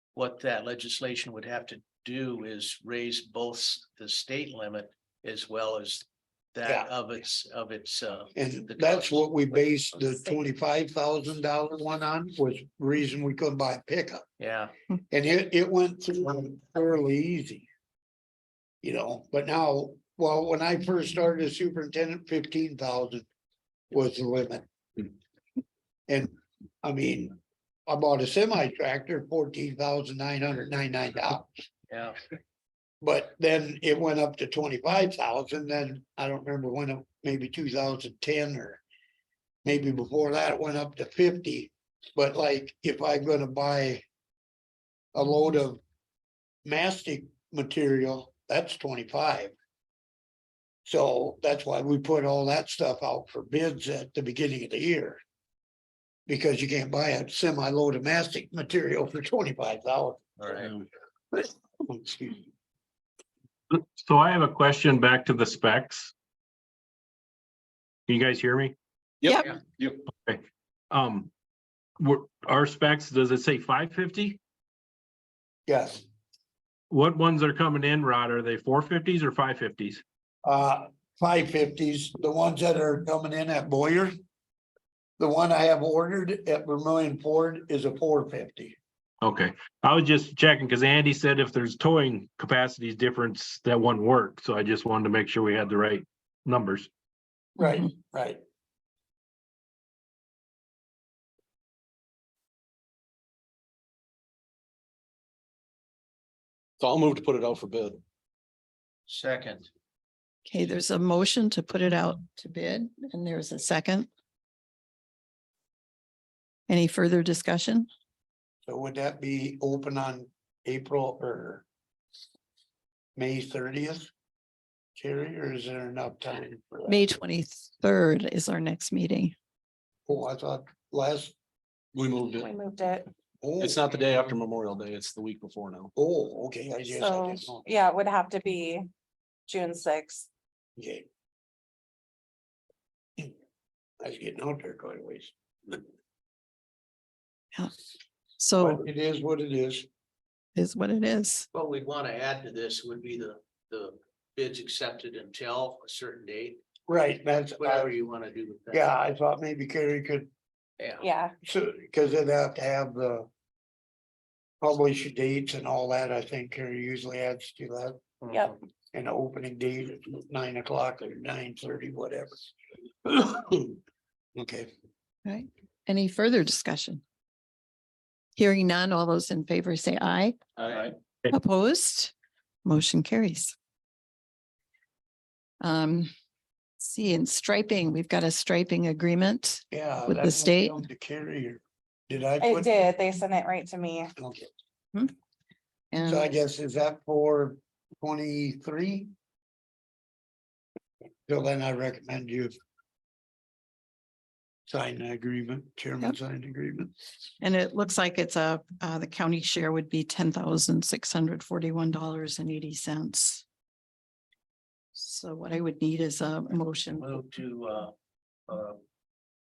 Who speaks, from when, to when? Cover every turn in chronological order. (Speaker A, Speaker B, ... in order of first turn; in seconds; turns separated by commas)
Speaker A: 0.1-10.4, Speaker B: 6.6-6.9, Speaker B: 8.3-14.2, Speaker A: 14.4-14.7, Speaker B: 15.1-17.7, Speaker B: 18.8-23.3, Speaker B: 23.9-24.7, Speaker B: 26.1-31.5, Speaker A: 31.9-32.2, Speaker B: 33.0-38.8, Speaker B: 39.6-44.0, Speaker B: 45.1-45.8, Speaker B: 46.6-49.5, Speaker B: 50.8-55.2, Speaker B: 56.3-60.2, Speaker A: 60.4-60.7, Speaker B: 61.3-62.5, Speaker C: 63.7-66.1, Speaker C: 68.1-68.7, Speaker D: 69.2-70.0, Speaker E: 69.2-69.5, Speaker C: 70.9-71.3, Speaker C: 72.0-74.4, Speaker B: 75.7-76.0, Speaker C: 76.9-80.0, Speaker B: 80.4-84.1, Speaker B: 85.2-88.8, Speaker C: 89.2-96.9, Speaker B: 97.6-98.4, Speaker D: 106.8-108.0, Speaker A: 109.1-109.7, Speaker E: 110.5-114.1, Speaker E: 116.7-117.9, Speaker B: 118.7-121.6, Speaker B: 123.2-124.1, Speaker B: 125.0-127.0, Speaker E: 126.9-129.3, Speaker B: 130.1-131.3, Speaker D: 131.9-132.5, Speaker F: 132.4-133.1, Speaker B: 133.4-133.8, Speaker D: 133.6-135.9, Speaker B: 135.9-137.7, Speaker F: 136.9-138.9, Speaker F: 139.5-140.2, Speaker B: 140.8-141.0, Speaker B: 144.0-145.8, Speaker E: 148.4-148.8, Speaker B: 148.6-149.9, Speaker E: 150.6-151.5, Speaker A: 151.5-156.6, Speaker B: 156.9-157.9, Speaker A: 157.6-158.9, Speaker B: 158.7-160.3, Speaker A: 160.8-161.1, Speaker F: 161.0-161.3, Speaker B: 161.4-163.3, Speaker B: 164.6-168.0, Speaker A: 168.2-168.5, Speaker B: 168.9-172.4, Speaker B: 173.0-173.8, Speaker B: 174.3-174.7, Speaker E: 175.2-177.0, Speaker E: 178.3-180.4, Speaker D: 180.6-180.9, Speaker A: 180.6-180.9, Speaker E: 181.3-182.1, Speaker E: 182.6-183.5, Speaker E: 185.6-186.1, Speaker E: 186.8-190.8, Speaker B: 189.7-192.8, Speaker F: 192.4-194.1, Speaker B: 194.2-194.5, Speaker E: 195.9-196.3, Speaker B: 196.0-199.1, Speaker B: 201.3-202.5, Speaker B: 204.7-206.9, Speaker E: 207.4-213.4, Speaker E: 214.9-217.2, Speaker A: 217.0-217.9, Speaker A: 218.5-218.8